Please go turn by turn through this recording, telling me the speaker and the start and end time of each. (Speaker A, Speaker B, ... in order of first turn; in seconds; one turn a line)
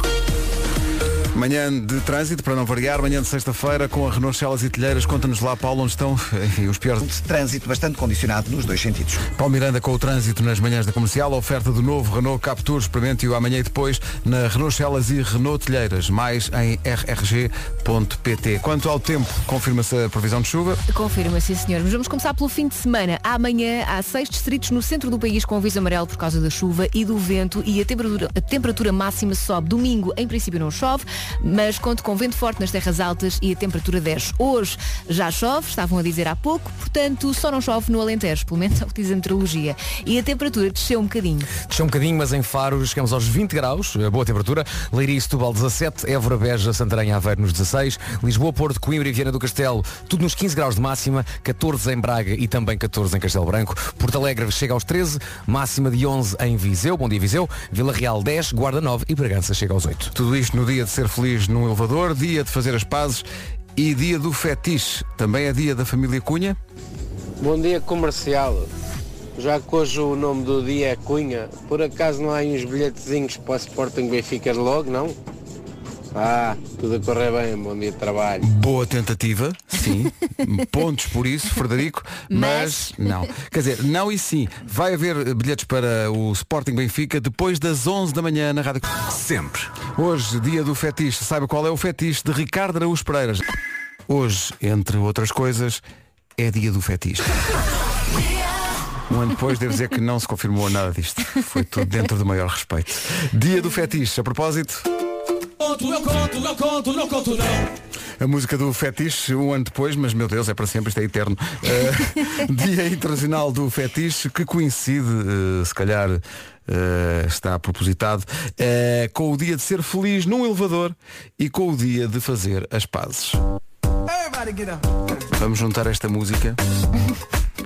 Speaker A: 1.3-7.1
Speaker B: 7.0-9.2
Speaker A: 9.3-20.8
Speaker C: 20.9-41.5
Speaker D: 41.7-60.1
Speaker A: 60.1-66.6
Speaker E: 67.4-68.7
Speaker E: 69.4-75.2
Speaker E: 76.1-78.5
Speaker A: 78.4-88.9
Speaker C: 82.3-83.3
Speaker D: 89.1-89.7
Speaker A: 89.9-93.5
Speaker A: 94.1-95.8
Speaker A: 96.4-97.3
Speaker A: 99.1-104.9
Speaker D: 105.7-107.5
Speaker A: 108.2-123.4
Speaker A: 125.3-126.6